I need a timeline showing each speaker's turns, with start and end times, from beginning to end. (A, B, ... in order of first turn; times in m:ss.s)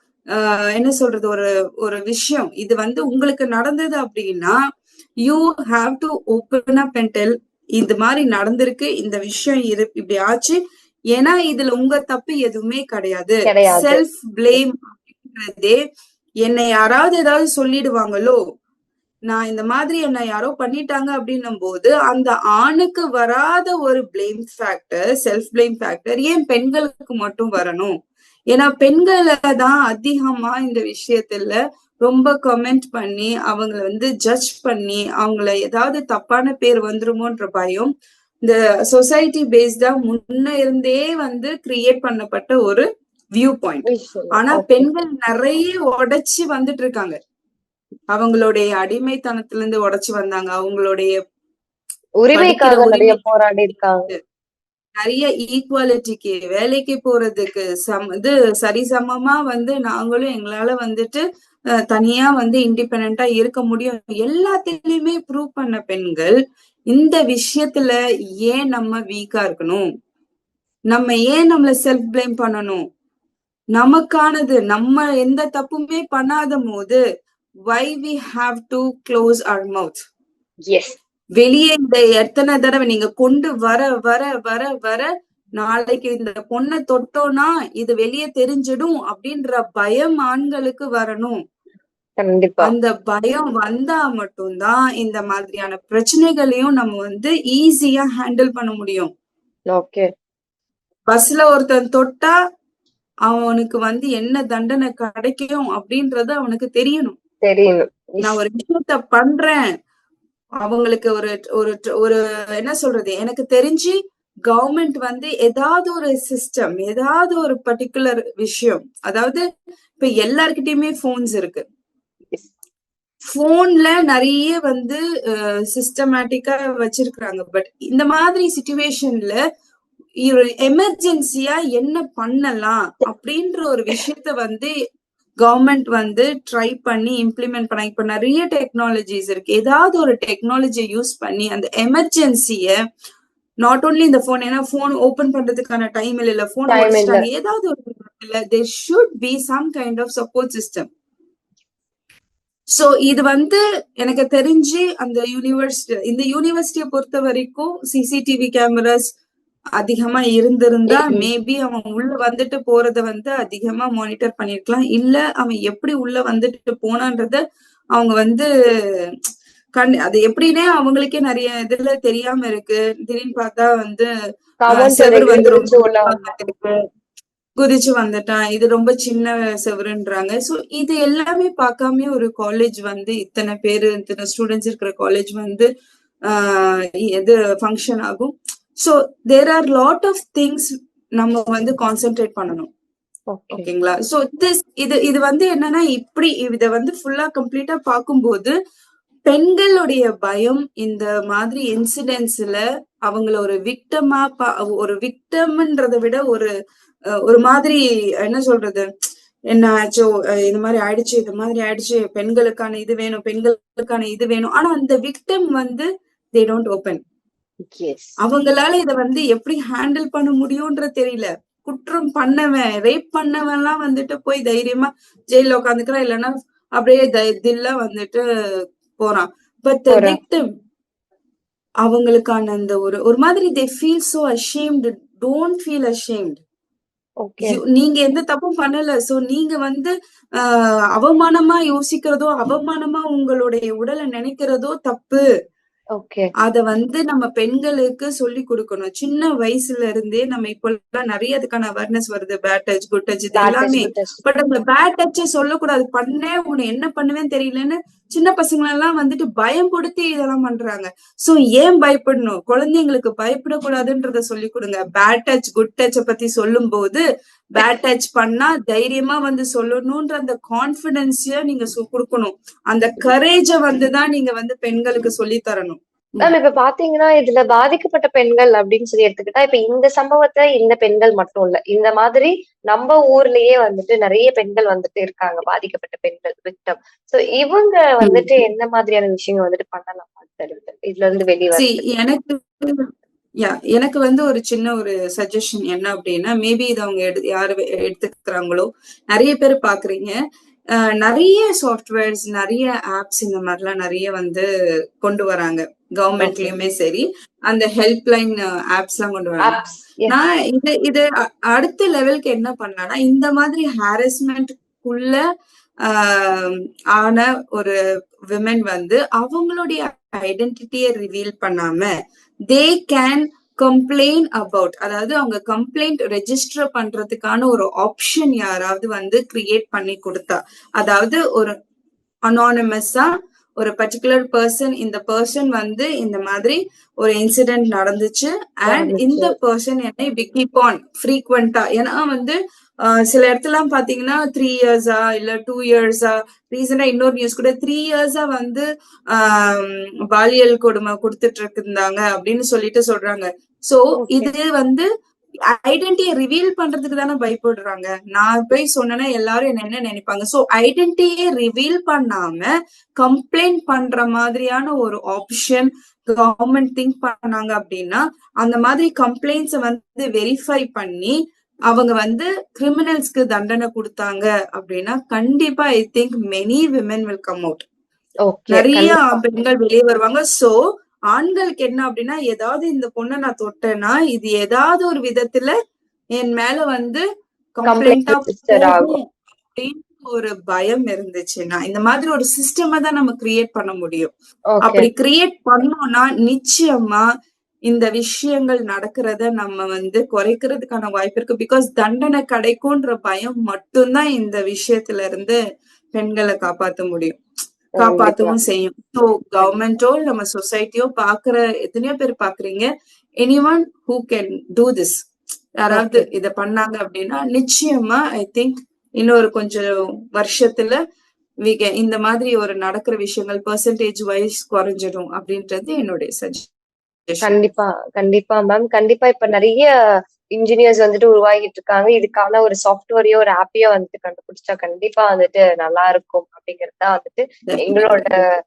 0:00.3-0:04.6 A
0:05.3-0:10.6 A
0:11.1-0:15.8 A
0:13.5-0:14.0 B
0:16.4-0:18.4 A
0:19.3-0:28.0 A
0:28.5-0:47.2 A
0:43.9-0:44.9 B
0:48.1-0:51.2 A
0:52.2-0:54.1 B
0:52.3-0:53.2 A
0:55.0-1:01.2 A
1:01.9-1:06.3 A
1:06.9-1:09.9 A
1:10.9-1:12.8 A
1:13.8-1:17.0 A
1:17.7-1:20.0 A
1:20.6-1:21.0 B
1:21.4-1:31.4 A
1:32.2-1:32.7 B
1:32.6-1:39.1 A
1:39.7-1:40.1 B
1:41.1-1:42.4 A
1:43.3-1:47.2 A
1:47.4-1:48.4 B
1:48.2-1:49.6 A
1:50.6-1:54.0 A
1:54.5-1:59.4 A
2:00.0-2:01.6 A
2:03.3-2:09.4 A
2:10.2-2:14.7 A
2:15.4-2:22.8 A
2:23.6-2:30.9 A
2:26.7-2:27.3 B
2:32.7-2:39.0 A
2:39.8-2:47.4 A
2:40.9-2:41.3 B
2:48.0-2:48.5 A
2:49.8-2:54.1 A
2:54.6-2:56.2 B
2:54.8-2:56.7 A
2:57.6-3:05.7 A
3:06.3-3:12.7 A
3:13.3-3:13.6 B
3:13.5-3:18.6 A
3:19.3-3:26.5 A
3:27.3-3:28.9 A
3:29.5-3:37.0 A
3:37.6-3:38.1 B
3:38.2-3:48.2 A
3:49.0-3:50.4 A
3:49.9-3:50.2 B
3:51.8-3:56.4 A
3:57.2-3:57.6 B
3:57.4-4:05.2 A
4:06.0-4:06.3 B
4:06.4-4:27.0 A
4:13.4-4:14.2 B
4:27.6-4:36.3 A
4:36.2-4:51.9 B
4:48.0-4:48.3 A
4:51.6-4:52.9 A
4:53.4-5:00.2 A
5:00.7-5:04.5 A
5:05.0-5:15.2 A
5:06.2-5:06.5 B
5:09.4-5:10.2 B
5:15.8-5:17.8 A
5:18.3-5:21.9 A
5:22.5-5:31.6 A
5:32.3-5:54.9 A
5:38.7-5:39.3 B
5:54.0-5:54.3 B
5:55.5-6:11.1 A
6:11.7-6:17.6 A
6:18.2-6:19.2 B
6:18.5-6:20.6 A
6:21.1-6:25.6 A
6:26.2-6:27.0 A
6:27.6-6:34.1 A
6:27.7-6:29.0 B
6:34.5-6:34.9 B
6:34.6-6:37.0 A
6:37.7-6:45.4 A
6:45.9-6:47.2 A
6:47.8-6:52.7 A
6:47.8-6:48.4 B
6:53.2-6:55.0 A
6:55.6-7:00.8 A
6:55.7-6:56.1 B
7:01.5-7:06.5 A
7:07.1-7:07.3 A
7:07.2-7:09.7 B
7:10.4-7:18.2 B
7:17.5-7:18.3 A